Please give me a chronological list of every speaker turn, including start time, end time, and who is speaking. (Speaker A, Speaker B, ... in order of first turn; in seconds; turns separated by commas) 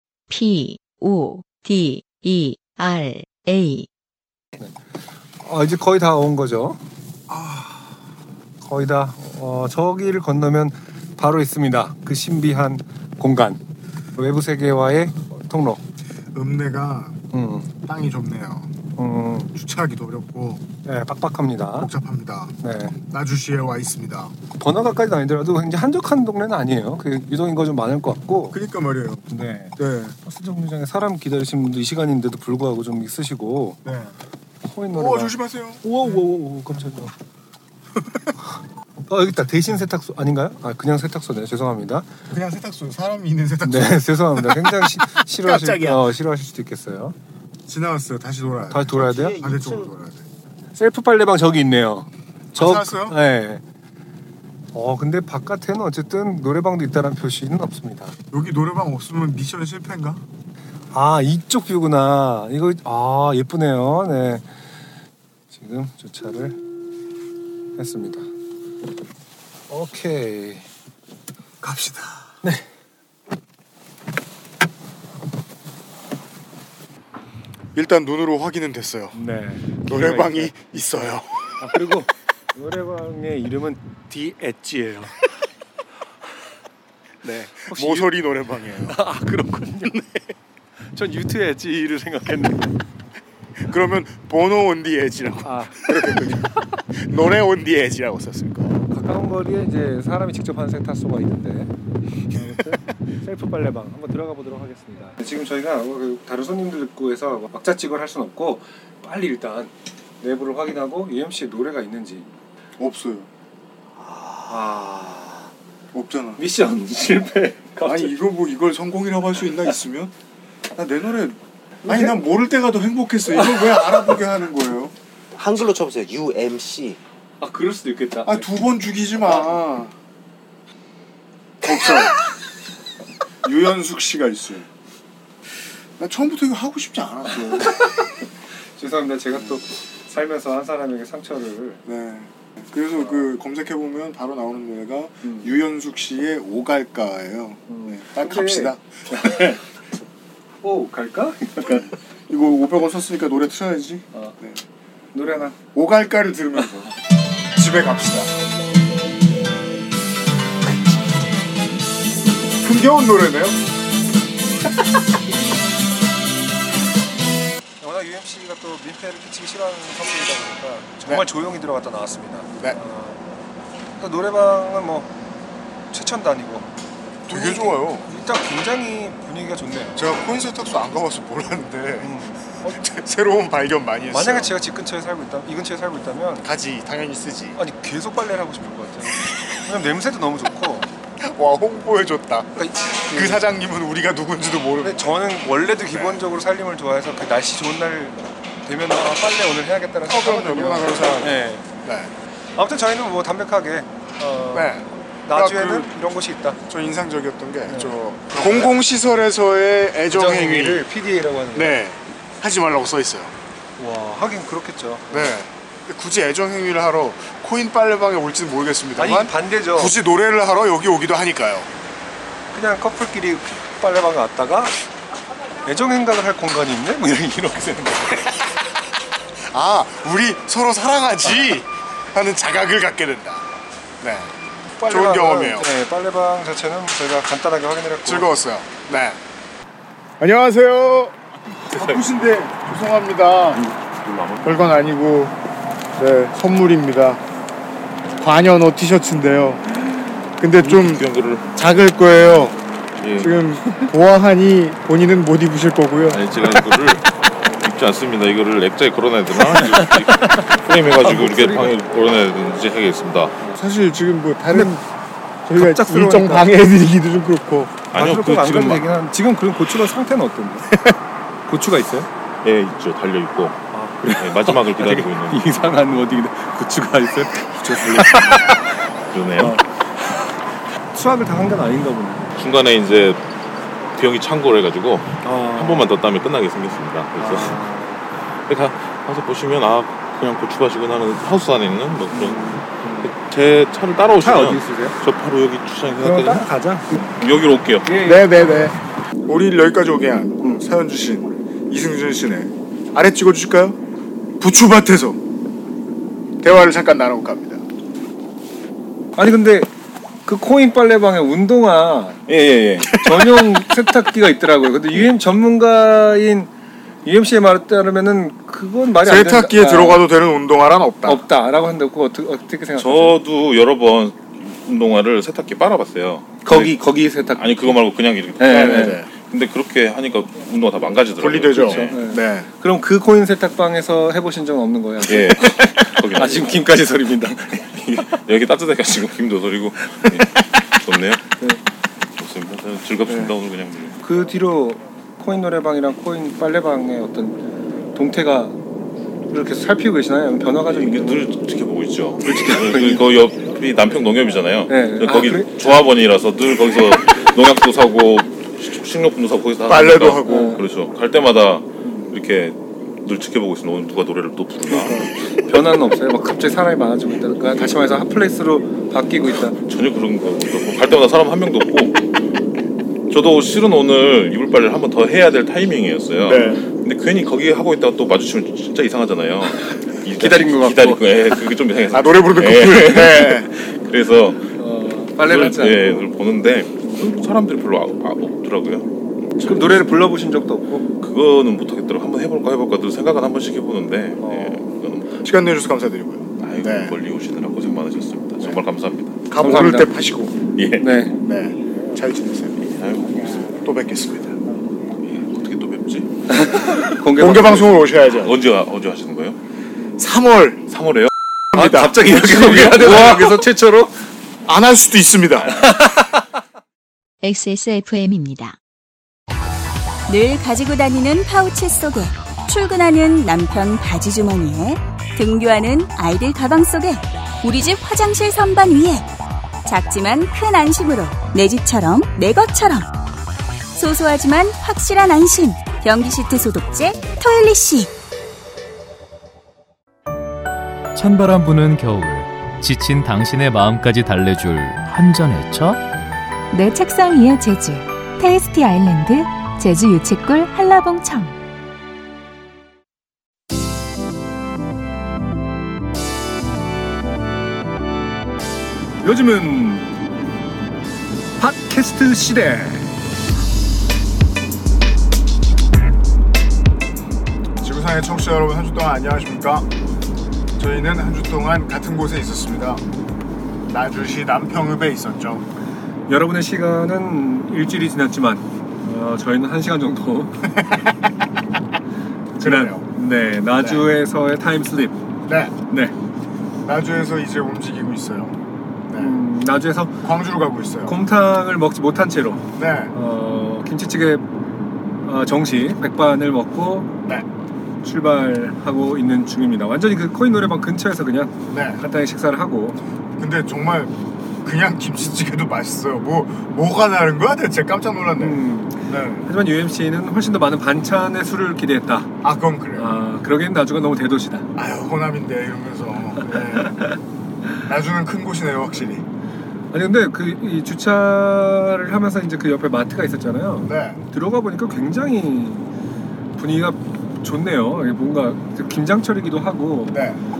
Speaker A: 0.3-3.9, Speaker B: 5.4-6.8, Speaker B: 8.6-13.6, Speaker B: 14.2-15.8, Speaker C: 16.3-17.2, Speaker B: 17.3-17.7, Speaker C: 17.9-18.8, Speaker B: 19.0-19.5, Speaker C: 19.5-20.6, Speaker B: 20.8-21.9, Speaker C: 21.8-24.3, Speaker B: 22.6-23.0, Speaker B: 24.6-28.6, Speaker C: 28.5-29.2, Speaker B: 29.3-33.8, Speaker C: 29.8-30.1, Speaker C: 33.8-34.1, Speaker B: 34.6-37.1, Speaker C: 34.9-36.1, Speaker B: 39.1-42.1, Speaker C: 42.3-46.1, Speaker B: 43.6-47.1, Speaker C: 47.7-50.3, Speaker B: 48.7-49.4, Speaker D: 49.1-49.9, Speaker B: 50.7-53.6, Speaker C: 52.5-53.1, Speaker B: 54.7-58.1, Speaker C: 58.3-60.2, Speaker B: 60.9-64.5, Speaker B: 65.5-66.6, Speaker B: 67.8-68.3, Speaker B: 69.7-70.7, Speaker C: 71.6-72.3, Speaker C: 77.7-79.2, Speaker B: 79.1-80.5, Speaker C: 79.8-81.6, Speaker B: 81.6-85.2, Speaker C: 87.2-89.0, Speaker B: 87.3-88.2, Speaker B: 88.8-90.0, Speaker C: 89.8-90.2, Speaker B: 90.9-92.8, Speaker C: 93.6-98.8, Speaker B: 95.4-96.5, Speaker B: 98.9-101.7, Speaker C: 102.3-102.8, Speaker B: 102.6-112.3, Speaker C: 112.8-113.3, Speaker D: 114.1-114.3, Speaker B: 114.5-115.5, Speaker C: 115.9-116.4, Speaker B: 116.4-118.2, Speaker C: 117.8-120.1, Speaker C: 120.7-124.9, Speaker B: 121.8-122.2, Speaker B: 123.6-124.0, Speaker D: 125.3-127.0, Speaker B: 127.4-128.5, Speaker C: 128.2-129.9, Speaker C: 131.6-132.2, Speaker C: 133.4-134.7, Speaker C: 136.0-138.1, Speaker B: 137.3-138.0, Speaker B: 138.8-141.8, Speaker C: 141.8-149.5, Speaker B: 147.7-149.6, Speaker B: 150.6-151.9, Speaker C: 151.6-154.6, Speaker B: 155.1-155.6, Speaker C: 155.7-156.9, Speaker C: 157.5-158.3, Speaker C: 162.6-163.7, Speaker B: 167.8-173.3, Speaker B: 174.0-175.1, Speaker B: 175.9-176.7, Speaker C: 177.3-178.1, Speaker B: 177.3-180.0, Speaker C: 179.9-182.1, Speaker B: 182.0-182.8, Speaker C: 182.7-184.5, Speaker B: 184.1-186.5, Speaker C: 186.4-187.6, Speaker B: 187.6-190.9, Speaker C: 191.2-195.2, Speaker B: 192.6-193.4, Speaker B: 194.8-201.7, Speaker C: 195.9-196.2, Speaker C: 200.1-202.1, Speaker B: 202.6-206.6, Speaker C: 204.5-205.9, Speaker C: 206.7-210.8, Speaker B: 207.7-208.7, Speaker B: 210.1-211.8, Speaker C: 211.5-213.3, Speaker B: 213.8-215.4, Speaker C: 215.1-221.7, Speaker B: 219.0-219.9, Speaker B: 222.5-224.7, Speaker B: 225.6-228.3, Speaker C: 229.5-235.7, Speaker B: 234.8-238.3, Speaker C: 238.0-239.2, Speaker C: 240.2-241.2, Speaker C: 241.7-243.7, Speaker E: 244.1-244.4, Speaker C: 244.4-245.3, Speaker C: 245.9-247.2, Speaker C: 248.2-249.6, Speaker C: 250.4-251.0, Speaker E: 250.6-251.5, Speaker C: 251.5-252.6, Speaker E: 253.0-253.3, Speaker C: 253.2-256.2, Speaker E: 256.1-257.1, Speaker E: 257.6-263.3, Speaker B: 259.5-261.7, Speaker C: 263.5-264.8, Speaker C: 265.4-267.8, Speaker B: 265.5-266.5, Speaker E: 267.9-268.9, Speaker B: 267.9-270.7, Speaker B: 271.5-272.1, Speaker E: 272.4-275.5, Speaker B: 273.7-278.6, Speaker E: 279.1-279.6, Speaker B: 279.4-279.6, Speaker B: 280.9-282.3, Speaker E: 282.4-283.2, Speaker E: 283.9-287.6, Speaker B: 285.2-285.9, Speaker B: 287.2-288.1, Speaker E: 288.4-297.9, Speaker B: 292.1-293.1, Speaker B: 294.2-295.0, Speaker B: 296.0-297.1, Speaker B: 297.8-298.6, Speaker C: 298.0-298.7, Speaker C: 299.2-303.8, Speaker C: 304.4-305.2, Speaker C: 306.4-307.6, Speaker B: 309.2-309.7, Speaker B: 310.2-312.2, Speaker E: 312.3-313.6, Speaker B: 312.9-316.5, Speaker B: 317.0-320.0, Speaker C: 319.0-321.2, Speaker B: 321.0-323.2, Speaker E: 322.8-332.0, Speaker B: 326.4-327.7, Speaker B: 328.4-329.0, Speaker C: 328.4-329.1, Speaker C: 331.2-332.5, Speaker B: 331.5-338.1, Speaker E: 335.0-336.6, Speaker E: 338.0-341.2, Speaker E: 342.2-344.0, Speaker B: 344.0-347.4, Speaker B: 347.9-348.6, Speaker B: 349.3-351.3, Speaker E: 350.7-365.1, Speaker B: 352.2-353.0, Speaker B: 354.7-355.8, Speaker C: 359.7-360.6, Speaker B: 360.3-360.6, Speaker B: 361.8-362.1, Speaker B: 364.7-369.5, Speaker E: 369.3-372.0, Speaker E: 373.1-384.5, Speaker C: 376.2-376.6, Speaker B: 379.7-381.0, Speaker C: 381.9-383.5, Speaker B: 384.6-386.1, Speaker E: 385.2-390.0, Speaker B: 389.4-390.9, Speaker E: 391.0-395.2, Speaker B: 394.2-394.6, Speaker C: 395.2-397.0, Speaker E: 396.4-399.3, Speaker C: 399.3-400.4, Speaker B: 399.4-399.9, Speaker E: 400.6-401.0, Speaker B: 400.8-401.2, Speaker C: 401.2-402.6, Speaker E: 402.6-403.4, Speaker C: 403.5-404.4, Speaker E: 405.0-409.4, Speaker B: 406.3-407.6, Speaker C: 407.1-408.4, Speaker C: 410.0-410.6, Speaker E: 410.7-411.1, Speaker C: 411.5-413.4, Speaker B: 411.5-413.9, Speaker E: 412.2-413.2, Speaker C: 414.4-415.6, Speaker B: 415.6-416.2, Speaker A: 417.2-418.6, Speaker F: 420.1-429.1, Speaker F: 429.6-432.9, Speaker F: 433.8-437.9, Speaker G: 440.9-445.8, Speaker H: 446.5-451.4, Speaker B: 459.0-459.9, Speaker B: 461.4-462.9, Speaker C: 467.6-469.7, Speaker C: 470.6-472.8, Speaker C: 473.7-475.4, Speaker B: 476.1-480.5, Speaker C: 480.5-480.9, Speaker B: 482.4-485.0, Speaker C: 482.4-482.9, Speaker C: 483.6-483.9, Speaker C: 485.2-485.5, Speaker B: 485.7-485.9, Speaker C: 486.6-489.2, Speaker B: 488.9-490.0, Speaker C: 490.0-490.9, Speaker B: 490.9-494.2, Speaker C: 492.6-492.9, Speaker B: 495.0-496.9, Speaker B: 497.8-502.8, Speaker C: 501.5-501.8, Speaker C: 503.2-509.3, Speaker B: 508.2-512.1, Speaker C: 512.2-512.9, Speaker B: 512.8-514.5, Speaker C: 514.5-517.0, Speaker B: 516.7-516.9, Speaker C: 517.6-519.0, Speaker B: 519.7-525.6, Speaker C: 523.6-524.0, Speaker B: 526.4-530.0, Speaker C: 529.9-530.2